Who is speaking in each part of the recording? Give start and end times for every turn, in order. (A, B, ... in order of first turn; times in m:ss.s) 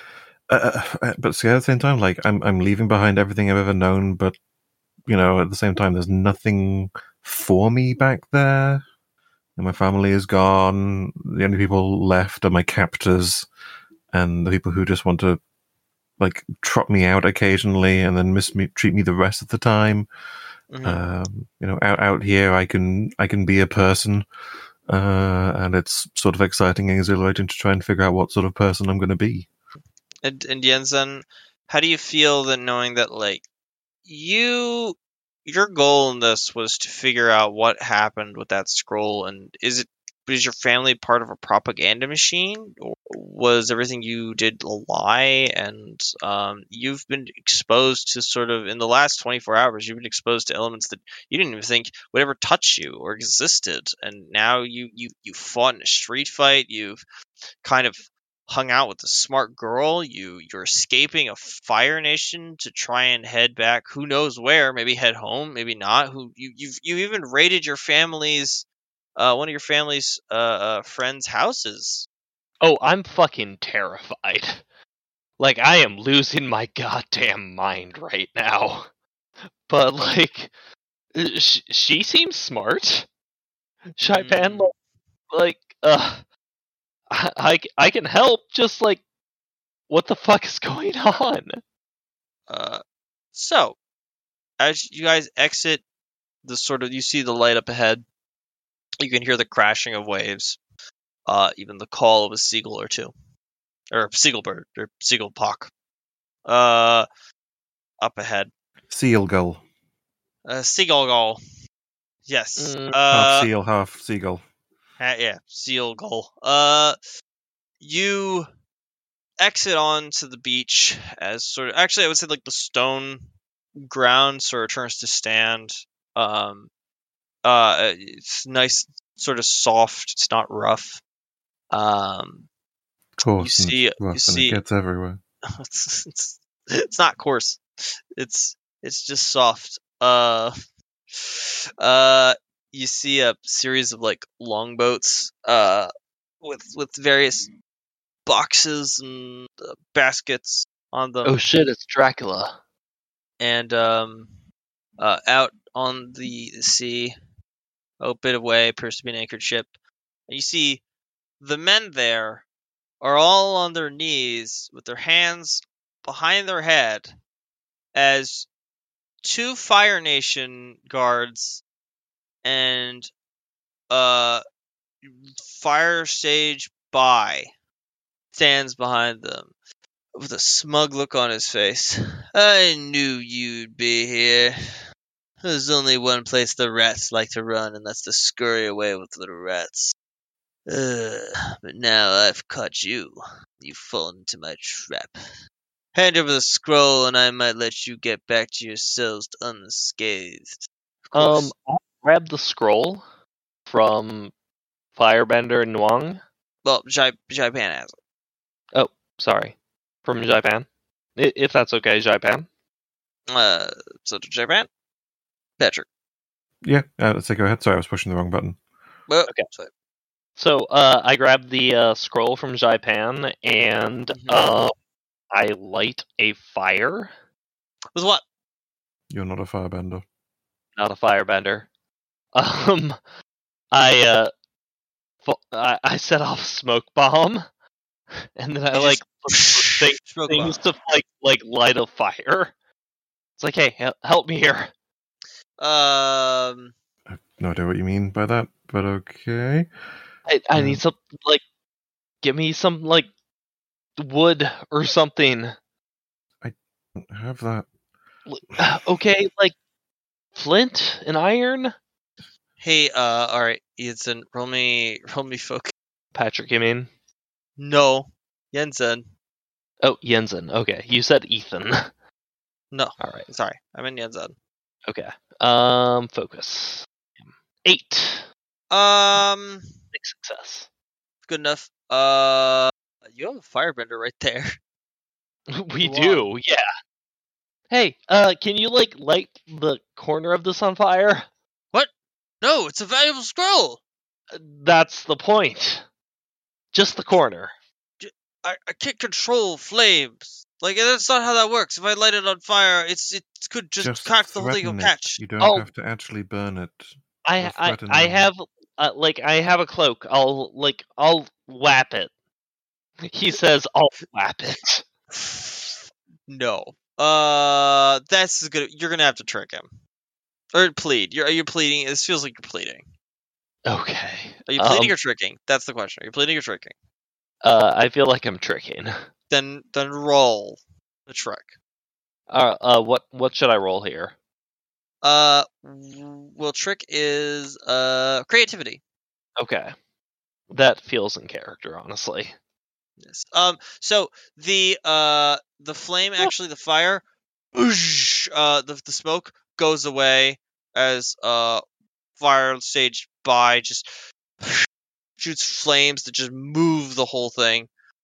0:00.5-0:04.4 A
0:05.1-0:08.8 A
0:09.6-0:13.5 A
0:14.1-0:15.4 A
0:16.2-0:20.1 A
0:20.7-0:21.0 B
0:20.8-0:24.3 A
0:24.9-0:29.5 A
0:30.2-0:33.4 B
0:34.1-0:57.0 B
0:57.6-1:08.7 B
1:09.2-1:12.1 B
1:12.6-1:14.6 C
1:15.4-1:18.9 C
1:19.7-1:20.5 C
1:21.2-1:23.1 C
1:24.0-1:24.7 C
1:24.0-1:24.7 B
1:25.3-1:26.2 C
1:27.1-1:29.0 C
1:29.9-1:31.6 C
1:32.5-1:32.8 B
1:33.3-1:33.8 B
1:34.6-1:35.8 B
1:36.4-1:38.0 B
1:39.0-1:40.6 B
1:41.3-1:43.1 B
1:43.9-1:45.7 B
1:46.4-1:47.1 B
1:48.0-1:48.5 B
1:48.9-1:49.6 A
1:50.4-1:51.4 B
1:52.3-1:53.5 B
1:52.6-1:53.0 C
1:53.1-1:54.4 A
1:55.0-1:57.0 B
1:57.8-1:58.5 B
1:59.4-2:06.7 B
2:07.4-2:11.0 B
2:11.7-2:12.5 B
2:13.2-2:15.2 A
2:13.4-2:14.6 B
2:15.6-2:17.6 B
2:18.2-2:20.5 B
2:21.1-2:25.9 B
2:26.4-2:27.5 B
2:28.3-2:31.4 B
2:31.2-2:32.6 C
2:33.4-2:34.3 B
2:35.0-2:37.1 B
2:38.0-2:39.7 B
2:40.3-2:40.8 B
2:41.4-2:42.4 B
2:43.0-2:47.1 B
2:48.0-2:48.5 B
2:49.2-2:51.6 B
2:52.4-2:53.1 B
2:53.9-2:54.4 B
2:55.0-2:57.5 B
2:58.3-2:59.5 B
3:00.2-3:04.6 B
3:05.4-3:10.0 B
3:10.7-3:15.2 B
3:15.9-3:21.5 B
3:21.1-3:23.0 C
3:23.7-3:24.3 C
3:25.0-3:26.2 C
3:26.6-3:28.0 B
3:28.7-3:30.7 C
3:31.2-3:32.5 C
3:33.3-3:34.7 B
3:35.6-3:35.9 B
3:36.6-3:38.6 A
3:39.1-3:39.7 B
3:40.4-3:44.7 C
3:44.1-3:44.5 B
3:45.3-3:47.1 C
3:48.0-3:48.2 B
3:49.1-3:50.0 A
3:50.8-3:51.7 C
3:52.4-3:53.0 C
3:53.7-3:54.3 C
3:55.2-3:57.4 C
3:58.4-4:02.5 C
3:58.7-4:00.6 B
4:03.4-4:04.7 C
4:05.6-4:06.7 B
4:07.1-4:09.7 A
4:10.3-4:11.4 C
4:10.6-4:10.8 A
4:12.2-4:13.1 C
4:14.0-4:15.6 C
4:16.4-4:17.7 A
4:18.3-4:19.6 C
4:20.4-4:21.7 C
4:22.6-4:25.7 B
4:26.2-4:26.9 C
4:27.6-4:29.1 B
4:29.8-4:31.9 C
4:32.7-4:34.3 B
4:33.0-4:33.3 C
4:34.9-4:36.9 C
4:37.6-4:38.3 C
4:38.7-4:39.8 B
4:39.9-4:40.7 C
4:41.3-4:44.6 B
4:45.5-4:46.7 C
4:45.8-4:46.3 B
4:47.7-4:51.3 C
4:52.4-4:53.8 B
4:54.3-4:55.8 C
4:56.7-4:57.5 C
4:58.0-5:05.2 B
5:03.8-5:08.3 A
5:05.4-5:05.7 C
5:07.2-5:12.1 C
5:13.0-5:14.8 C
5:15.1-5:19.7 B
5:20.5-5:22.8 B
5:23.7-5:24.9 C
5:24.5-5:26.7 B
5:27.4-5:29.0 C
5:29.3-5:31.6 B
5:32.3-5:34.2 C
5:35.0-5:38.8 B
5:39.4-5:39.7 C
5:40.5-5:42.3 C
5:43.0-5:47.0 B
5:47.6-5:51.6 B
5:52.2-5:53.9 B
5:54.4-5:54.7 B
5:55.2-5:57.7 B